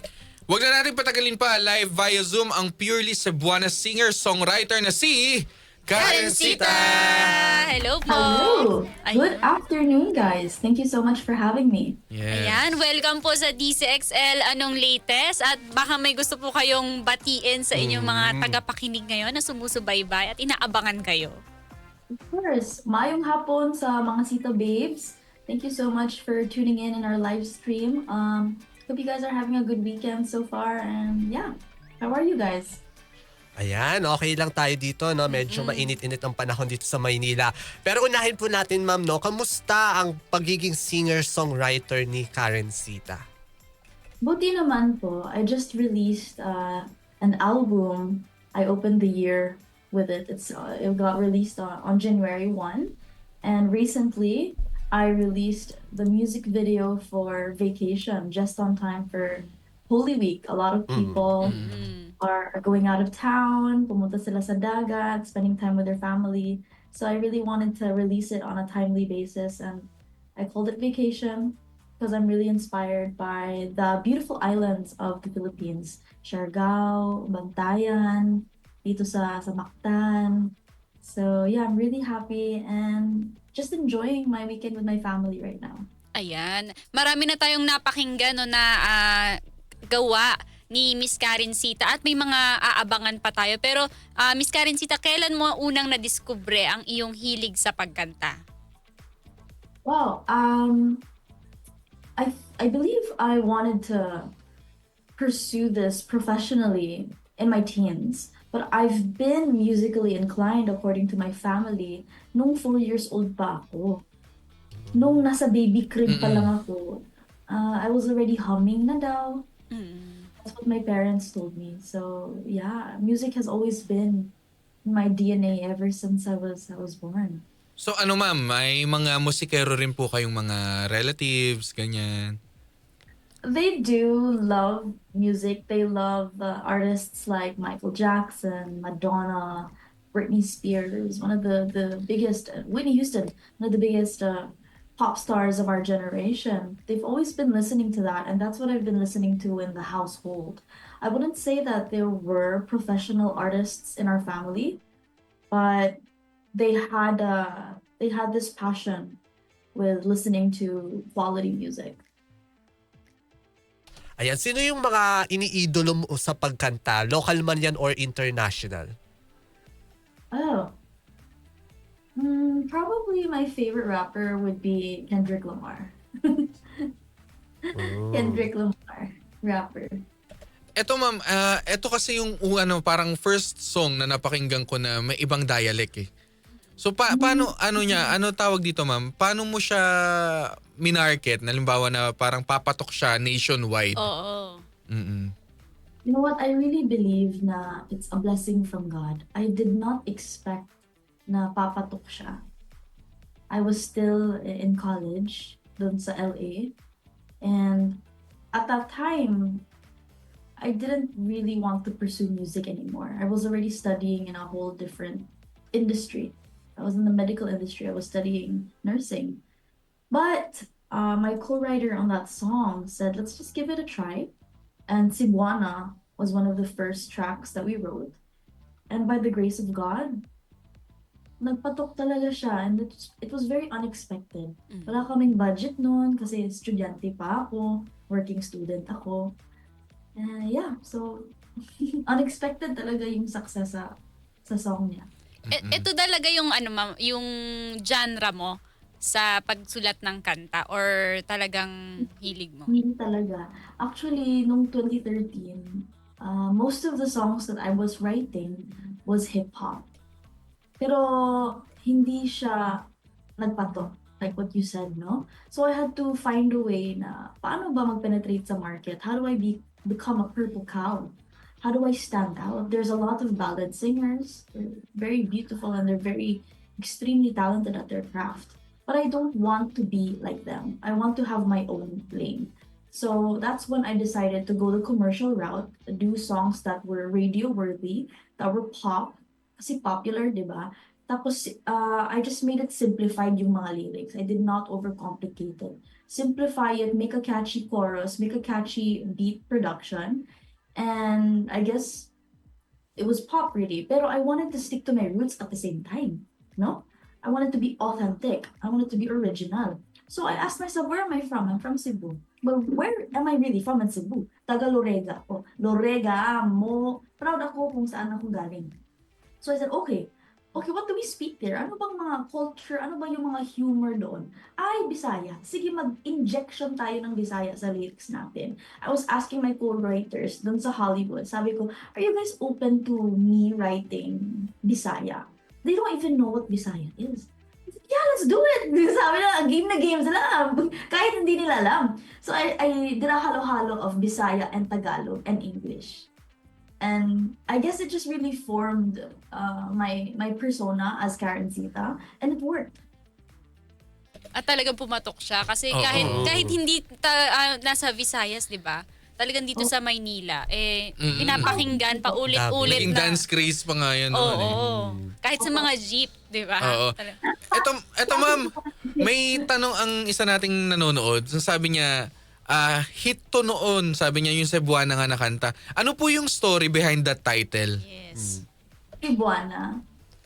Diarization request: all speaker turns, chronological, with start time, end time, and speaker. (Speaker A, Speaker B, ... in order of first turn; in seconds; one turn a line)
Speaker A: 0.5-7.3
Speaker B: 6.0-9.4
Speaker C: 6.4-7.0
Speaker D: 8.1-12.0
Speaker A: 12.1-12.8
Speaker B: 12.3-21.4
Speaker C: 17.7-18.6
Speaker D: 22.1-32.8
Speaker C: 33.6-43.2
Speaker B: 35.3-36.0
Speaker D: 44.2-61.6
Speaker C: 60.9-61.2
Speaker A: 61.4-61.7
Speaker B: 61.5-62.1
Speaker D: 62.2-85.9
Speaker B: 86.2-89.3
Speaker B: 89.9-98.3
Speaker D: 99.8-101.0
Speaker D: 102.2-104.3
Speaker D: 105.2-114.0
Speaker C: 114.9-115.2
Speaker D: 114.9-119.5
Speaker A: 116.1-116.5
Speaker B: 119.7-120.3
Speaker D: 120.4-124.3
Speaker D: 124.8-127.4
Speaker A: 127.8-132.3
Speaker D: 133.4-154.8
Speaker D: 155.5-156.0
Speaker D: 156.5-159.2
Speaker D: 159.7-162.0
Speaker C: 164.2-168.9
Speaker D: 170.3-170.7
Speaker D: 172.2-176.9
Speaker C: 177.7-178.5
Speaker D: 178.1-180.0
Speaker A: 180.8-186.1
Speaker A: 186.8-189.8
Speaker D: 187.1-188.2
Speaker A: 190.8-194.0
Speaker B: 193.9-194.6
Speaker A: 194.9-195.3
Speaker D: 196.0-200.7
Speaker D: 201.3-202.4
Speaker D: 203.5-206.7
Speaker D: 207.4-209.7
Speaker D: 210.6-219.4
Speaker D: 220.1-224.3
Speaker D: 224.9-228.2
Speaker D: 228.9-230.2
Speaker D: 231.4-239.4
Speaker B: 234.7-235.1
Speaker D: 240.2-241.3
Speaker D: 242.1-243.9
Speaker D: 244.4-245.1
Speaker A: 245.5-245.8
Speaker B: 245.5-247.3
Speaker B: 247.9-248.5
Speaker B: 249.0-252.8
Speaker D: 252.7-259.9
Speaker D: 260.8-262.9
Speaker D: 263.4-302.1
Speaker D: 303.0-318.8
Speaker D: 319.4-346.1
Speaker D: 346.8-352.7
Speaker B: 354.4-363.2
Speaker A: 355.7-356.3
Speaker C: 356.0-356.5
Speaker A: 361.0-361.6
Speaker D: 361.4-362.2
Speaker C: 362.3-362.9
Speaker A: 362.6-364.6
Speaker B: 364.1-367.1
Speaker C: 364.5-365.1
Speaker D: 365.4-365.7
Speaker A: 366.6-366.9
Speaker D: 367.2-369.5
Speaker A: 367.5-368.4
Speaker A: 369.0-371.9
Speaker A: 372.5-377.7
Speaker B: 377.8-378.4
Speaker C: 378.1-378.4
Speaker D: 379.0-379.8